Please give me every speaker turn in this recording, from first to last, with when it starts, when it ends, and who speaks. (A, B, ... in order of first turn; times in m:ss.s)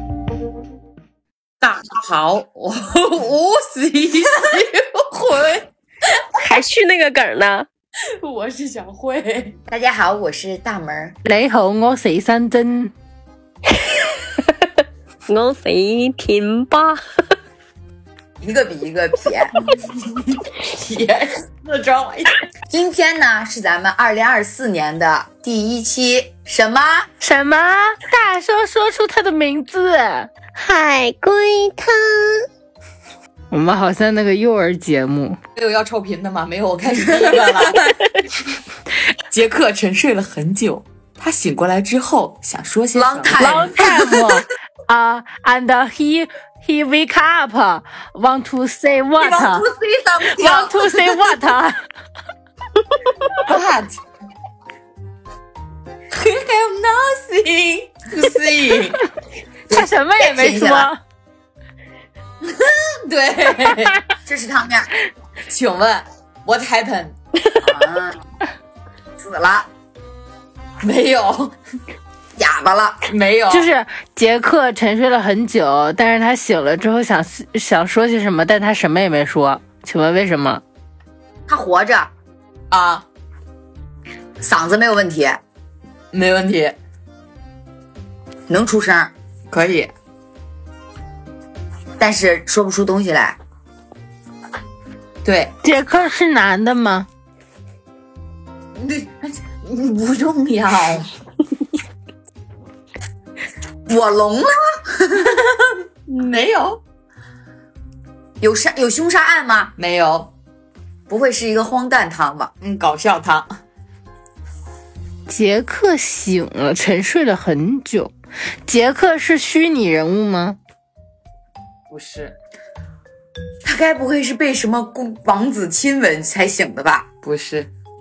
0:01.6-0:05.7 A
0:06.4-0:07.7 B
0:08.0-0:09.6 A
0:09.7-0:11.1 C
0:11.2-0:12.9 D
0:15.3-0:17.0 B
0:18.4-0:19.6 C
0:20.6-0:22.4 A
0:22.7-0:27.1 C
0:27.2-0:30.3 D
0:30.6-0:32.4 B
0:33.5-0:35.4 D
0:35.6-0:37.9 A
0:37.2-0:37.8 C
0:39.3-0:43.6 A
0:42.9-0:44.2 C
0:43.4-0:49.6 D
0:49.2-0:51.2 C
0:50.3-0:51.8 D
0:53.4-0:54.0 A
0:56.1-0:59.0 A
0:59.7-1:01.0 D
0:59.7-1:00.9 C
1:02.4-1:04.0 A
1:04.2-1:04.9 C
1:05.5-1:07.1 A
1:07.6-1:08.2 C
1:09.2-1:09.7 C
1:10.8-1:11.5 A
1:12.4-1:13.0 C
1:13.0-1:13.7 A
1:13.5-1:20.6 D
1:21.5-1:22.1 C
1:22.7-1:23.0 A
1:24.4-1:25.4 C
1:26.1-1:26.8 A
1:28.5-1:29.1 C
1:29.5-1:29.9 A
1:32.0-1:33.4 C
1:35.2-1:35.5 A
1:35.6-1:37.1 D
1:38.8-1:41.1 A
1:43.9-1:45.4 C
1:45.2-1:46.8 A
1:48.4-1:49.7 C
1:49.8-1:50.3 A
1:51.1-1:52.5 C
1:52.6-1:53.6 A
1:55.3-1:58.1 D
1:58.7-2:00.6 D
2:01.9-2:02.4 A
2:03.6-2:07.1 C
2:07.2-2:07.7 A